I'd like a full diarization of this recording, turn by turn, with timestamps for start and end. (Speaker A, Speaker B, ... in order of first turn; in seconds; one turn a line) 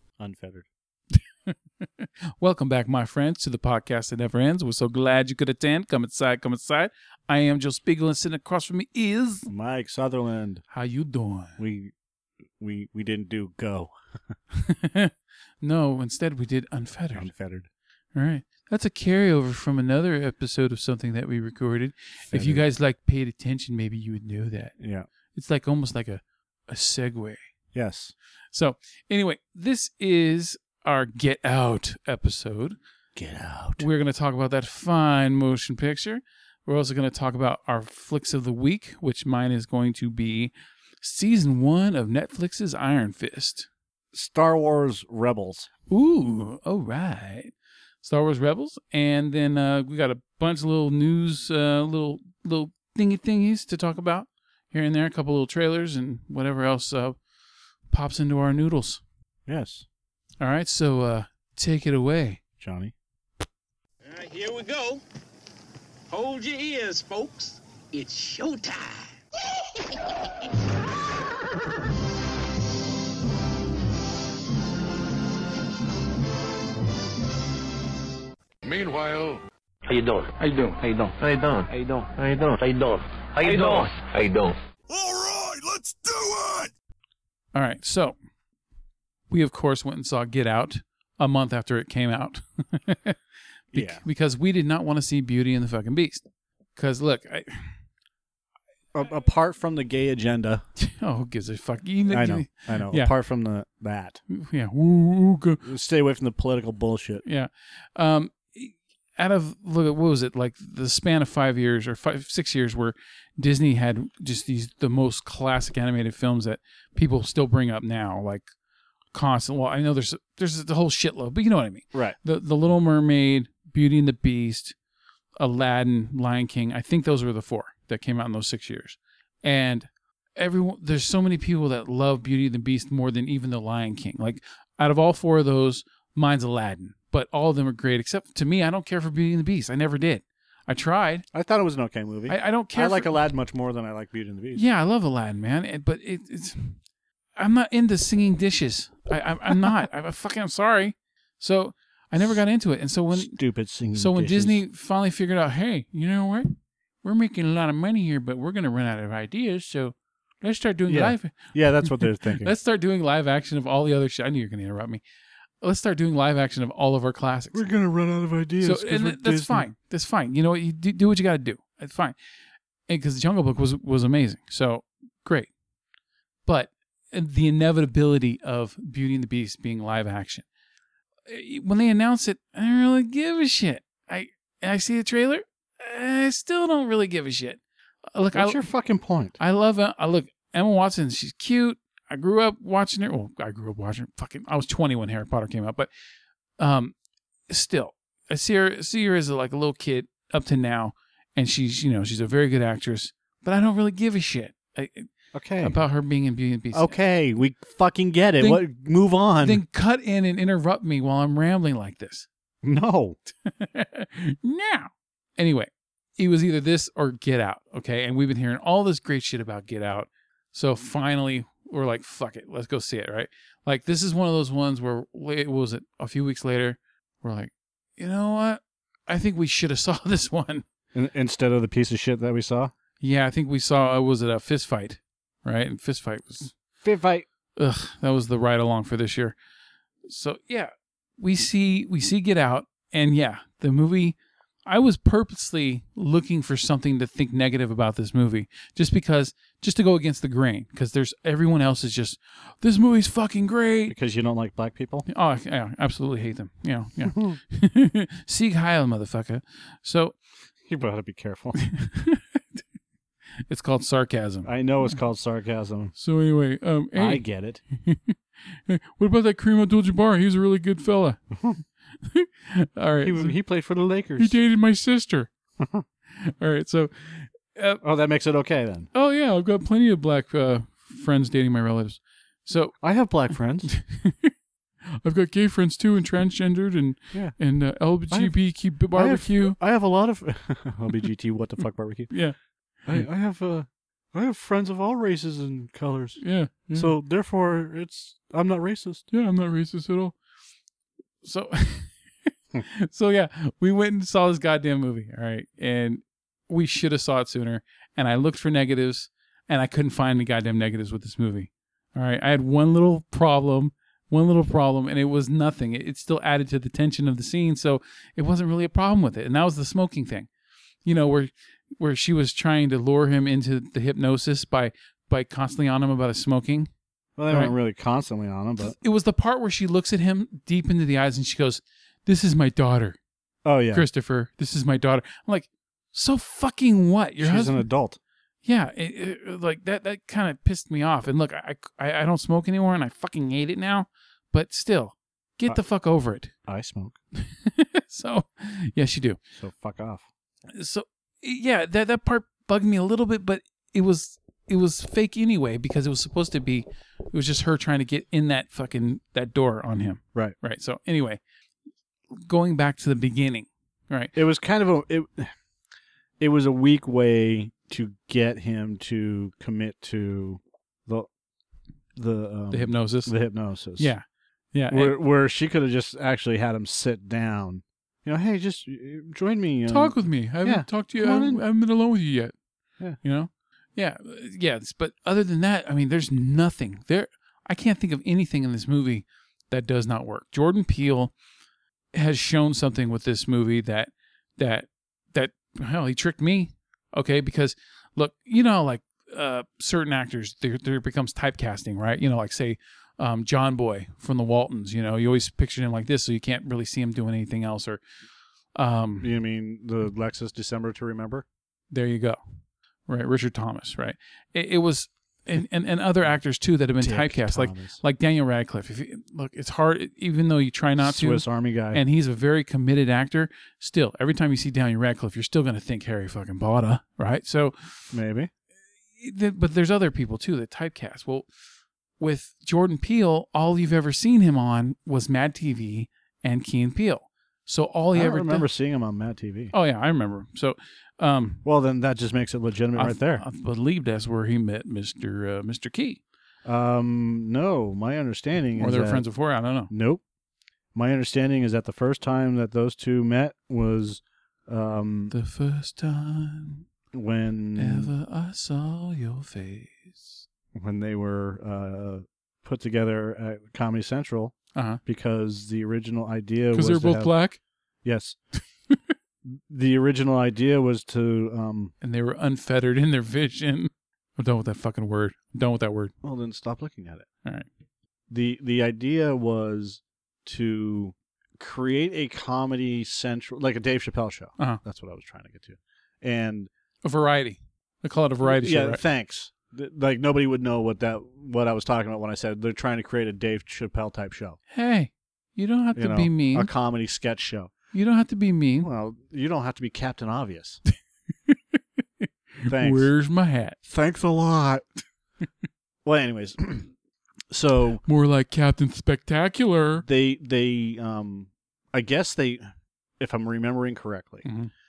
Speaker A: 0.2-0.7
Speaker B: 1.1-9.5
Speaker A: 9.5-10.6
Speaker B: 10.7-11.6
Speaker A: 11.6-11.9
Speaker A: 12.6-14.3
Speaker B: 14.5-17.3
Speaker A: 17.1-17.7
Speaker B: 18.1-24.7
Speaker A: 22.3-22.6
Speaker A: 24.8-25.1
Speaker B: 25.3-27.4
Speaker A: 27.7-28.1
Speaker B: 28.5-32.8
Speaker A: 33.1-33.9
Speaker B: 33.8-43.7
Speaker A: 44.1-45.7
Speaker B: 45.9-57.2
Speaker B: 57.9-59.0
Speaker A: 59.5-59.9
Speaker B: 60.4-62.4
Speaker A: 62.6-62.9
Speaker C: 64.0-65.0
Speaker C: 66.1-69.1
Speaker D: 78.6-79.4
Speaker E: 79.9-84.6
Speaker D: 80.4-80.8
Speaker D: 83.4-83.8
Speaker D: 84.9-86.7
Speaker B: 87.5-88.2
Speaker B: 89.3-93.2
Speaker B: 93.7-96.2
Speaker A: 93.7-94.0
Speaker B: 96.7-97.8
Speaker A: 98.9-100.6
Speaker B: 100.8-103.1
Speaker A: 102.1-104.2
Speaker B: 104.3-105.6
Speaker A: 105.6-107.2
Speaker B: 107.2-118.5
Speaker B: 119.1-124.8
Speaker B: 125.4-141.2
Speaker A: 141.3-144.6
Speaker B: 142.3-143.1
Speaker B: 144.5-146.8
Speaker B: 147.3-153.3
Speaker A: 149.5-149.7
Speaker A: 153.1-154.6
Speaker B: 153.9-165.0
Speaker A: 160.9-162.5
Speaker B: 165.6-167.6
Speaker A: 167.5-169.6
Speaker B: 168.6-172.2
Speaker B: 172.9-175.5
Speaker B: 176.4-180.4
Speaker B: 181.3-187.6
Speaker B: 188.1-188.7
Speaker A: 188.3-189.4
Speaker B: 189.4-195.9
Speaker B: 196.6-196.9
Speaker B: 197.5-207.0
Speaker A: 205.3-205.8
Speaker A: 206.7-209.6
Speaker B: 209.4-212.3
Speaker A: 212.6-213.2
Speaker B: 213.4-230.6
Speaker A: 230.9-232.7
Speaker B: 233.0-236.5
Speaker A: 236.8-237.2
Speaker B: 237.6-239.3
Speaker B: 240.1-253.9
Speaker A: 253.9-255.1
Speaker B: 255.1-260.2
Speaker A: 257.1-257.4
Speaker A: 260.6-261.6
Speaker B: 261.6-262.6
Speaker B: 263.5-264.9
Speaker A: 264.4-265.9
Speaker B: 265.9-267.2
Speaker A: 266.9-267.6
Speaker B: 267.8-271.2
Speaker A: 271.3-271.6
Speaker B: 272.0-273.4
Speaker A: 273.0-274.4
Speaker B: 274.2-275.3
Speaker A: 275.6-275.8
Speaker B: 276.2-277.8
Speaker A: 277.8-278.9
Speaker B: 278.9-282.8
Speaker A: 282.8-283.7
Speaker B: 283.6-284.3
Speaker B: 284.9-289.6
Speaker A: 287.1-287.4
Speaker A: 288.1-288.4
Speaker A: 288.9-292.3
Speaker A: 292.9-299.0
Speaker B: 296.2-296.9
Speaker B: 299.1-300.2
Speaker B: 301.2-320.3
Speaker B: 320.8-326.7
Speaker A: 327.2-328.7
Speaker B: 327.3-327.5
Speaker B: 328.6-333.0
Speaker A: 333.4-333.9
Speaker B: 333.7-337.6
Speaker A: 337.2-338.0
Speaker B: 338.4-346.3
Speaker A: 346.4-346.9
Speaker B: 347.2-349.2
Speaker A: 349.3-350.0
Speaker B: 350.5-361.2
Speaker B: 362.1-364.1
Speaker A: 364.1-365.3
Speaker A: 366.2-371.1
Speaker A: 371.9-373.9
Speaker B: 372.5-373.1
Speaker B: 373.8-375.0
Speaker A: 374.7-381.4
Speaker B: 379.7-382.3
Speaker B: 383.0-391.1
Speaker B: 391.9-407.8
Speaker B: 408.5-409.1
Speaker A: 409.0-411.2
Speaker B: 411.7-412.2
Speaker B: 412.9-427.9
Speaker A: 416.8-417.8
Speaker A: 420.8-421.8
Speaker A: 427.9-428.3
Speaker B: 429.0-431.3
Speaker B: 432.0-438.5
Speaker A: 437.9-439.5
Speaker B: 439.5-441.4
Speaker A: 441.4-443.2
Speaker B: 442.8-446.0
Speaker A: 446.4-449.0
Speaker B: 448.6-449.7
Speaker A: 449.7-450.0
Speaker A: 450.7-455.1
Speaker B: 455.1-456.7
Speaker A: 456.9-457.9
Speaker B: 457.6-460.2
Speaker A: 460.5-467.1
Speaker B: 464.5-464.8
Speaker B: 466.5-467.4
Speaker A: 467.8-468.2
Speaker A: 469.2-471.7
Speaker B: 471.8-475.9
Speaker A: 476.0-477.1
Speaker A: 478.1-486.5
Speaker B: 486.8-488.8
Speaker A: 488.2-494.4
Speaker B: 494.5-496.5
Speaker A: 495.8-497.5
Speaker B: 497.7-498.7
Speaker A: 498.6-500.6
Speaker B: 501.3-503.6
Speaker A: 502.5-502.9
Speaker A: 503.6-504.6
Speaker A: 505.8-506.7
Speaker A: 507.3-507.8
Speaker B: 507.8-509.9
Speaker A: 509.8-512.4
Speaker A: 513.0-514.3
Speaker B: 514.2-514.5